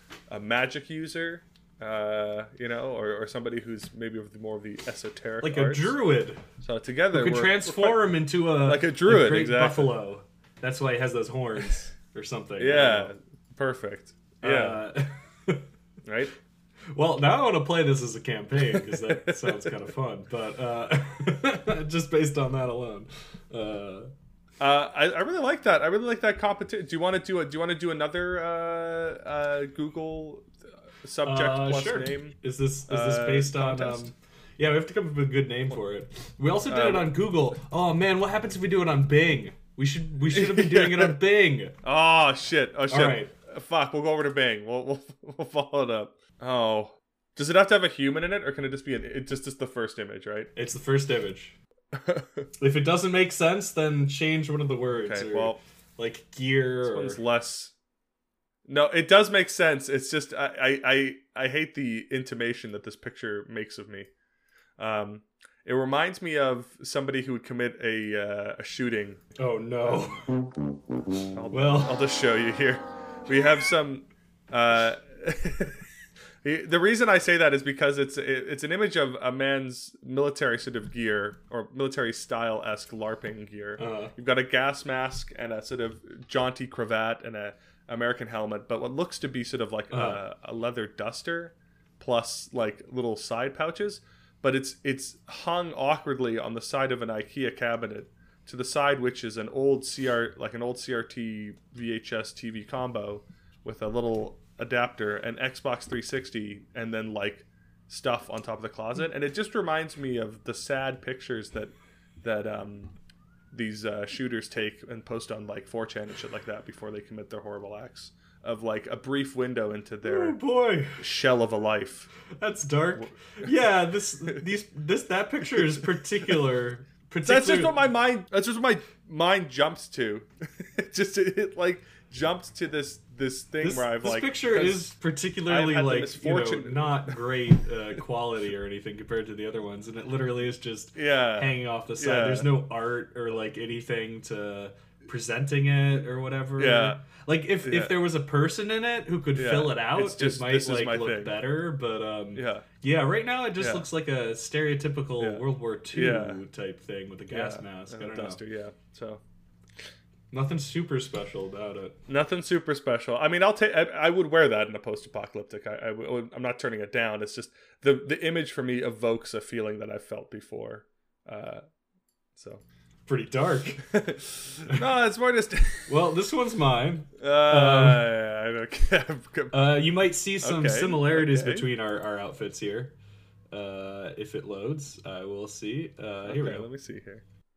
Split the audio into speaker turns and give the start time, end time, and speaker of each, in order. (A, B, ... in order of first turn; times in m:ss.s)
0:00.3-0:06.0 A
0:05.4-0:06.4 B
0:06.6-0:10.0 A
0:07.1-0:13.1 B
0:12.6-0:14.8 A
0:14.4-0:15.6 B
0:16.0-0:16.3 A
0:16.9-0:24.1 B
0:18.6-0:19.8 A
0:24.6-0:30.5 A
0:31.0-0:32.4 A
0:31.2-0:41.8 B
0:32.9-0:34.1 A
0:36.7-0:37.1 A
0:40.3-0:41.2 A
0:41.8-0:50.5 A
0:42.9-0:43.3 B
0:50.6-0:51.6 B
0:51.9-0:52.5 A
0:52.6-0:57.2 B
0:54.9-0:55.6 A
0:56.8-0:57.7 A
0:58.7-1:04.1 A
1:04.8-1:09.2 A
1:09.4-1:10.2 B
1:09.8-1:10.3 A
1:11.3-1:15.8 A
1:11.5-1:12.2 B
1:16.4-1:52.9 A
1:23.8-1:24.1 B
1:29.9-1:30.2 B
1:53.5-2:00.4 A
2:00.0-2:01.1 B
2:01.0-2:02.1 A
2:02.3-2:07.8 B
2:02.9-2:03.5 A
2:04.2-2:04.5 A
2:05.5-2:06.4 A
2:07.2-2:14.9 A
2:13.6-2:38.4 B
2:15.4-2:17.2 A
2:20.9-2:22.5 A
2:26.6-2:27.0 A
2:27.6-2:28.0 A
2:29.3-2:31.5 A
2:32.3-2:32.7 A
2:33.6-2:33.9 A
2:35.2-2:36.4 A
2:37.3-2:39.2 A
2:40.3-2:42.0 B
2:42.1-2:51.6 A
2:52.3-2:52.6 A
2:53.1-2:53.8 B
2:53.8-2:56.1 A
2:55.9-2:58.1 B
2:57.2-2:59.9 A
2:59.5-3:02.9 B
3:00.4-3:01.7 A
3:03.5-3:06.7 B
3:06.2-3:07.2 A